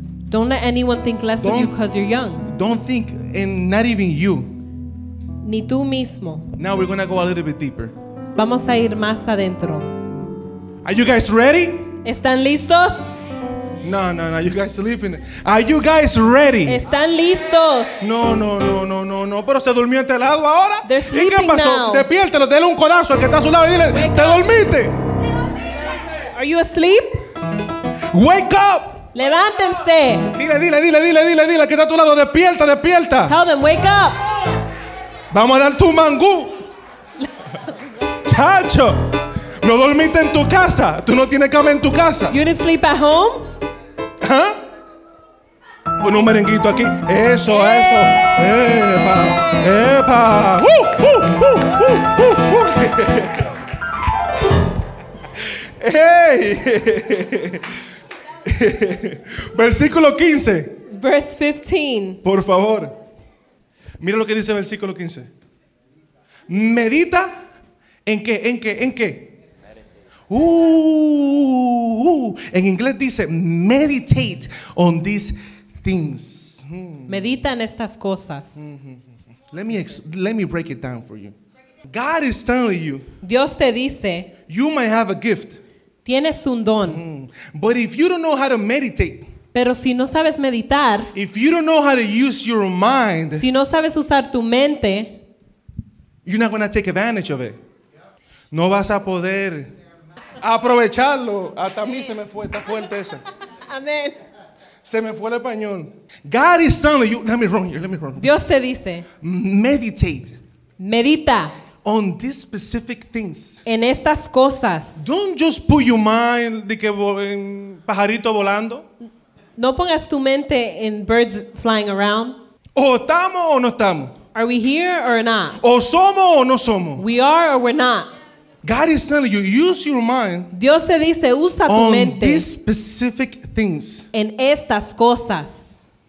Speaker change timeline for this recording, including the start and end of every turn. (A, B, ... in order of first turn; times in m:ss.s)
0:00.3-0:02.5 A
0:01.4-0:01.8 B
0:02.4-0:04.6 B
0:05.4-0:06.5 A
0:06.6-0:07.9 B
0:08.3-0:10.0 A
0:10.8-0:11.9 B
0:12.0-0:13.1 A
0:13.8-0:16.8 B
0:16.6-0:18.0 A
0:18.0-0:25.0 B
0:20.8-0:22.1 A
0:23.9-0:24.5 A
0:25.9-0:27.2 A
0:28.1-0:29.1 B
0:29.1-0:30.3 A
0:30.3-0:33.4 B
0:33.2-0:34.2 A
0:35.3-0:36.6 B
0:38.2-0:42.4 B
0:42.3-0:43.4 A
0:44.2-0:44.6 B
0:46.0-0:53.5 B
0:47.6-0:48.4 A
0:49.1-0:49.7 A
0:55.4-0:57.8 B
0:58.4-1:00.8 B
1:00.9-1:02.2 A
1:02.2-1:02.9 B
1:04.0-1:05.3 B
1:06.5-1:07.3 B
1:08.0-1:09.4 B
1:10.3-1:17.3 B
1:17.1-1:18.7 A
1:18.6-1:19.0 B
1:19.5-1:21.3 B
1:21.9-1:23.1 B
1:23.2-1:24.3 A
1:24.5-1:25.6 B
1:26.0-1:27.0 A
1:26.8-1:29.3 B
1:29.5-1:31.1 A
1:31.1-1:33.5 B
1:33.4-1:35.2 A
1:36.2-1:37.6 B
1:38.5-1:39.7 B
1:40.4-1:43.2 B
1:43.5-1:44.2 A
1:44.8-1:48.3 B
1:48.2-1:49.1 A
1:49.2-1:50.4 B
1:50.8-1:51.5 A
1:51.8-1:53.6 B
1:53.6-1:55.0 A
1:55.0-1:58.9 B
1:59.6-2:02.4 A
2:02.8-2:04.1 B
2:04.3-2:05.6 A
2:05.6-2:07.0 B
2:07.0-2:08.1 A
2:08.6-2:10.5 B
2:10.5-2:12.5 A
2:11.7-2:14.1 B
2:14.1-2:15.8 A